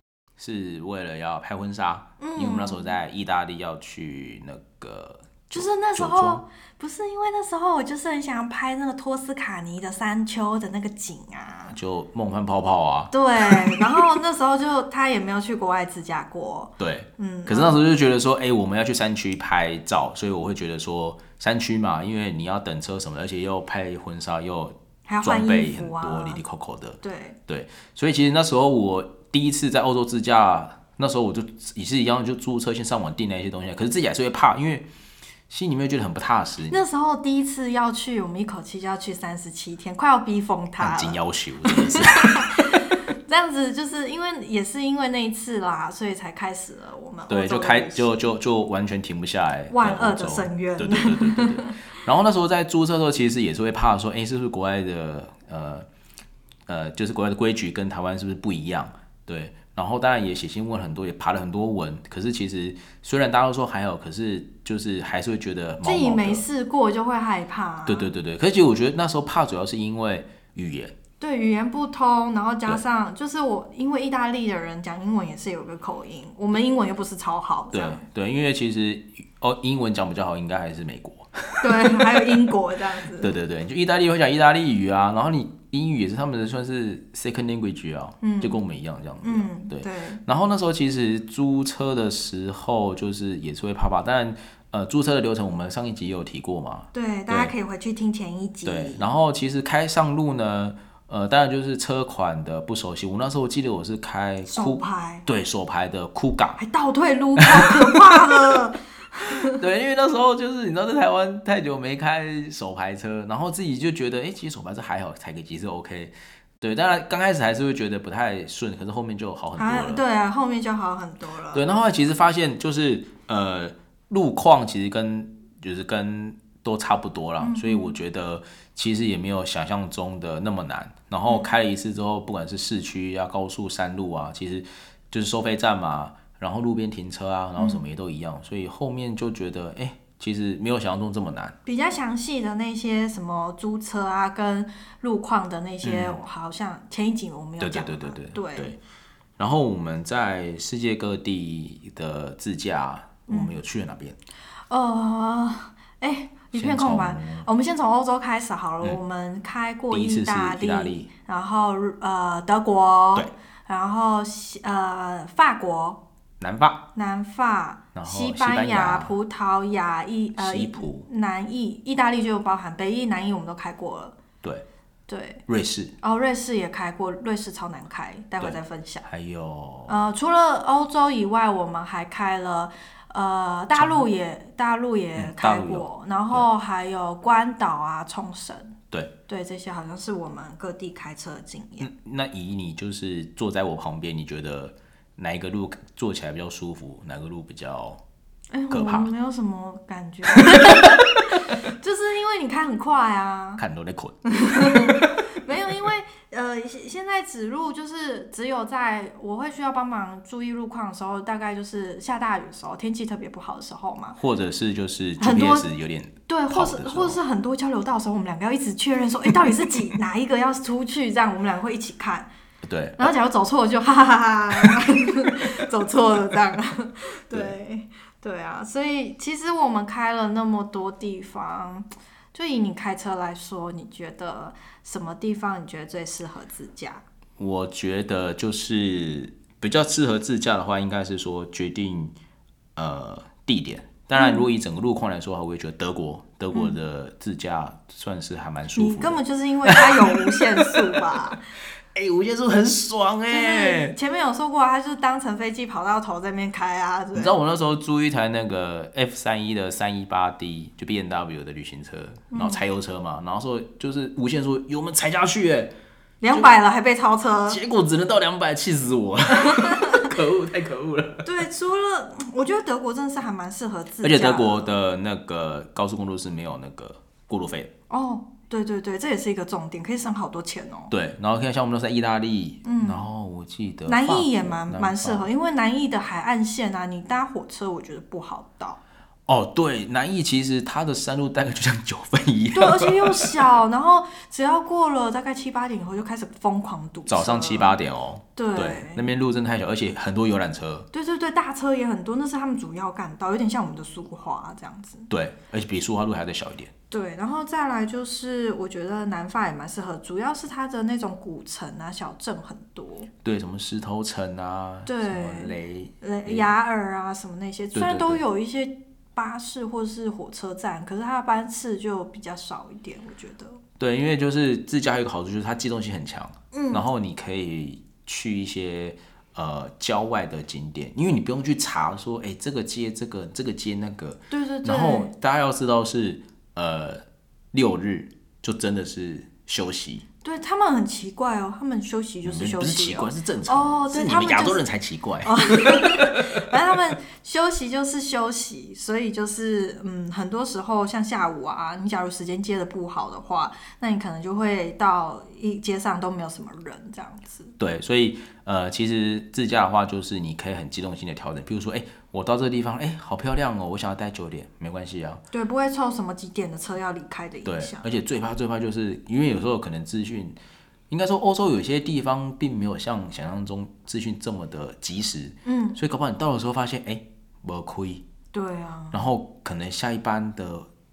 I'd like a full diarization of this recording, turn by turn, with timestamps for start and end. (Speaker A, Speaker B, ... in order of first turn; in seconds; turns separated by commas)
Speaker A: 0.4-6.4, Speaker B: 2.2-3.0, Speaker B: 5.5-11.8, Speaker A: 11.7-14.0, Speaker B: 13.1-17.8, Speaker A: 16.8-34.9, Speaker B: 25.1-26.4, Speaker B: 27.0-27.4, Speaker A: 35.5-36.8, Speaker B: 36.7-48.1, Speaker A: 40.8-42.6, Speaker A: 47.3-55.9, Speaker B: 49.7-51.8, Speaker A: 56.7-66.4, Speaker B: 65.8-68.1, Speaker A: 67.8-70.9, Speaker B: 71.2-78.0, Speaker A: 77.7-82.3, Speaker B: 81.6-83.3, Speaker A: 83.1-97.5, Speaker B: 88.2-88.6, Speaker B: 89.2-90.2, Speaker B: 96.9-99.1, Speaker A: 98.6-106.6, Speaker B: 104.5-105.2, Speaker B: 106.6-109.6, Speaker A: 107.4-108.6, Speaker A: 109.5-120.0, Speaker B: 119.5-121.6, Speaker A: 121.5-141.5, Speaker B: 127.4-128.0, Speaker B: 137.6-137.8, Speaker B: 141.6-148.8, Speaker A: 145.8-146.2, Speaker A: 147.6-148.8, Speaker A: 149.4-154.2, Speaker B: 153.3-153.5, Speaker B: 154.7-166.0, Speaker A: 156.5-157.5, Speaker A: 159.9-161.1, Speaker A: 166.4-166.8, Speaker B: 166.9-174.2, Speaker A: 167.9-169.1, Speaker A: 170.4-171.1, Speaker B: 175.1-175.4, Speaker A: 175.5-175.9, Speaker B: 176.0-179.1, Speaker A: 178.4-179.9, Speaker B: 179.9-188.7, Speaker A: 183.7-184.0, Speaker A: 185.2-186.4, Speaker B: 189.3-191.9, Speaker A: 191.8-198.0, Speaker B: 198.5-203.6, Speaker A: 198.7-199.1, Speaker A: 200.6-201.1, Speaker A: 203.6-204.2, Speaker B: 204.2-214.2, Speaker A: 214.2-217.2, Speaker B: 215.2-215.7, Speaker B: 216.3-222.3, Speaker A: 219.4-219.7, Speaker A: 222.6-223.1, Speaker B: 223.0-237.0, Speaker A: 237.4-242.1, Speaker A: 242.8-251.3, Speaker B: 244.1-244.5, Speaker B: 246.5-246.8, Speaker B: 248.8-251.4, Speaker A: 251.9-253.9, Speaker B: 253.3-257.4, Speaker A: 257.1-265.7, Speaker B: 262.3-262.6, Speaker B: 266.2-267.6, Speaker A: 267.5-271.3, Speaker B: 269.3-270.1, Speaker B: 271.2-274.8, Speaker A: 274.0-277.7, Speaker B: 277.9-280.9, Speaker A: 280.9-285.3, Speaker B: 282.6-283.1, Speaker B: 283.9-288.8, Speaker A: 289.3-293.6, Speaker B: 292.5-297.8, Speaker A: 297.1-300.9, Speaker B: 298.4-299.1, Speaker B: 300.9-305.1, Speaker A: 305.1-306.7, Speaker B: 306.9-313.1, Speaker A: 313.2-316.5, Speaker B: 314.9-323.6, Speaker A: 317.7-318.2, Speaker A: 323.8-337.0, Speaker B: 326.5-326.9, Speaker B: 334.3-335.1, Speaker A: 337.5-340.0, Speaker B: 340.2-344.6, Speaker A: 342.2-346.2, Speaker B: 345.2-357.5, Speaker A: 357.6-365.2, Speaker B: 365.3-367.9, Speaker A: 367.4-370.4, Speaker A: 370.9-378.0, Speaker B: 375.4-375.8, Speaker B: 378.3-379.0, Speaker A: 378.9-380.7